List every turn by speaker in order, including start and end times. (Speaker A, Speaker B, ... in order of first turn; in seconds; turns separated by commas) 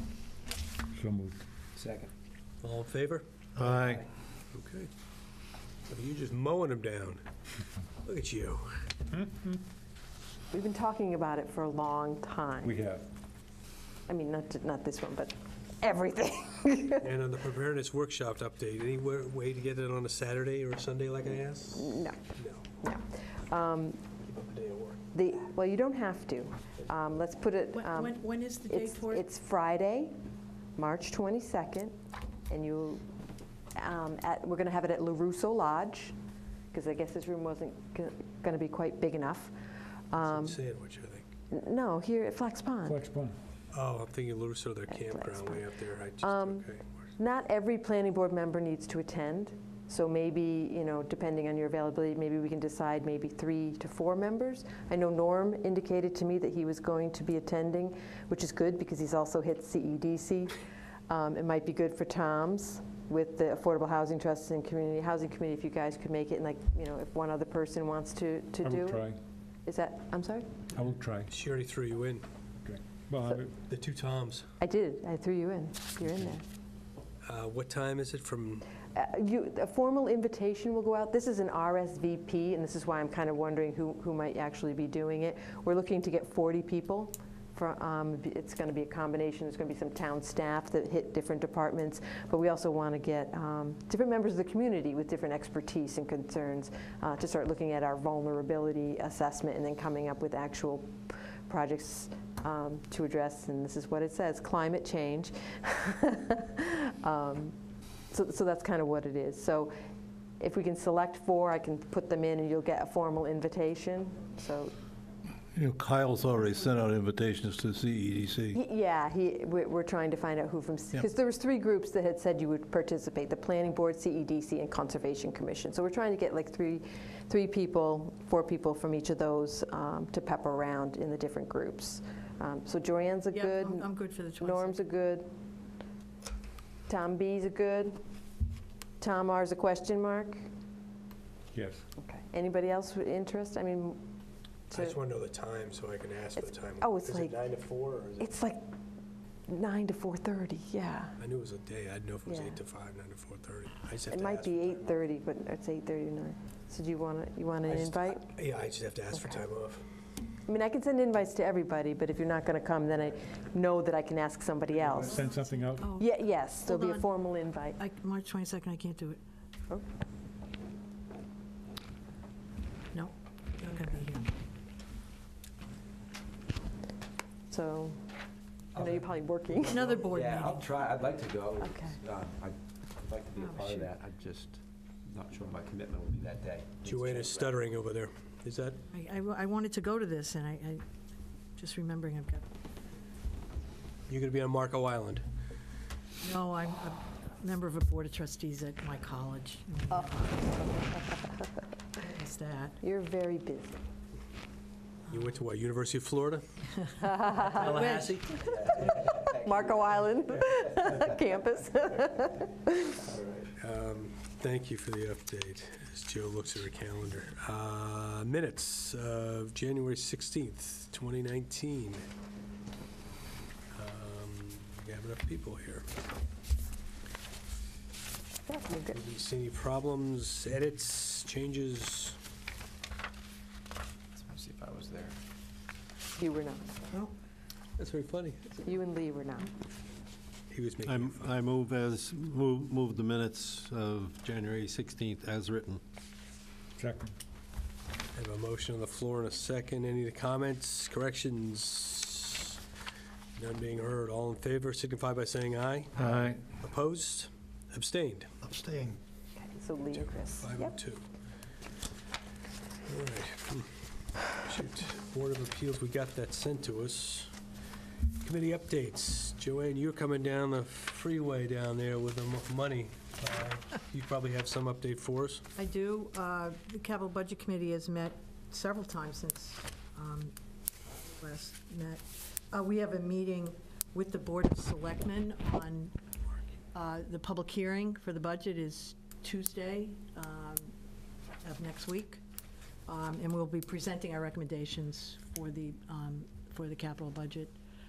Speaker A: 0.9-1.4, Speaker B: 1.8-2.1, Speaker C: 2.6-3.2, Speaker B: 3.6-4.0, Speaker D: 3.6-4.0, Speaker C: 4.5-4.9, Speaker C: 5.9-7.2, Speaker C: 8.0-8.9, Speaker A: 9.1-9.4, Speaker E: 10.5-12.7, Speaker A: 12.6-13.1, Speaker E: 14.1-17.1, Speaker C: 17.0-22.6, Speaker E: 21.8-22.2, Speaker E: 22.8-24.0, Speaker C: 24.3-25.0, Speaker E: 25.1-30.2, Speaker F: 27.7-29.3, Speaker E: 30.8-31.9, Speaker E: 32.5-33.1, Speaker E: 33.8-36.1, Speaker E: 36.7-39.5, Speaker E: 40.1-40.6, Speaker C: 40.2-41.3, Speaker E: 41.5-43.0, Speaker A: 42.9-43.4, Speaker C: 43.7-47.0, Speaker E: 44.9-45.7, Speaker E: 46.2-46.7, Speaker E: 47.2-69.1, Speaker A: 68.6-69.2, Speaker E: 69.7-70.5, Speaker A: 70.8-71.3, Speaker C: 71.3-72.2, Speaker A: 72.6-73.5, Speaker C: 73.5-74.5, Speaker E: 74.6-76.4, Speaker C: 77.2-78.7, Speaker E: 78.9-107.5, Speaker E: 108.1-109.7, Speaker E: 110.4-114.7, Speaker D: 115.6-118.6, Speaker E: 118.5-135.3, Speaker F: 133.3-134.8, Speaker E: 136.9-138.0, Speaker E: 139.0-140.5, Speaker A: 141.5-141.8, Speaker E: 142.0-144.0, Speaker E: 144.7-144.9, Speaker C: 144.7-148.3, Speaker E: 146.4-147.4, Speaker E: 148.2-148.6, Speaker E: 149.5-151.2, Speaker C: 151.2-154.8, Speaker E: 152.3-152.6, Speaker E: 154.1-158.2, Speaker C: 157.7-159.8, Speaker E: 159.2-159.4, Speaker E: 160.5-165.2, Speaker A: 164.8-165.9, Speaker F: 165.2-167.1, Speaker E: 165.9-167.8, Speaker F: 167.8-169.2, Speaker F: 172.9-174.3, Speaker E: 177.5-178.0, Speaker E: 178.8-179.9, Speaker B: 178.8-187.6, Speaker F: 179.6-180.7, Speaker E: 181.6-182.0, Speaker F: 183.4-183.9, Speaker C: 186.8-188.8, Speaker F: 188.9-190.8, Speaker F: 191.6-192.4, Speaker C: 194.1-195.2, Speaker F: 196.2-201.0, Speaker E: 199.9-201.5, Speaker F: 202.0-202.8, Speaker E: 202.8-203.8, Speaker C: 205.1-206.4, Speaker F: 206.8-208.2, Speaker E: 207.0-207.9, Speaker C: 207.4-208.5, Speaker E: 208.5-213.0, Speaker B: 208.8-209.7, Speaker C: 213.4-222.0, Speaker C: 223.7-225.9, Speaker E: 228.5-229.0, Speaker C: 228.9-232.2, Speaker B: 234.2-235.1, Speaker E: 236.2-236.8, Speaker C: 237.8-238.5, Speaker E: 238.6-239.5, Speaker C: 240.5-241.3, Speaker D: 240.8-245.8, Speaker A: 246.8-247.2, Speaker C: 248.2-252.6, Speaker C: 253.4-255.9, Speaker D: 256.0-256.4, Speaker C: 256.5-258.3, Speaker D: 258.4-259.0, Speaker E: 259.4-260.8, Speaker C: 259.9-261.0, Speaker C: 262.9-263.7, Speaker C: 264.3-267.3, Speaker C: 268.2-275.4, Speaker F: 275.6-280.3, Speaker F: 280.9-285.9, Speaker F: 286.7-290.7, Speaker F: 291.4-292.2, Speaker F: 292.9-297.6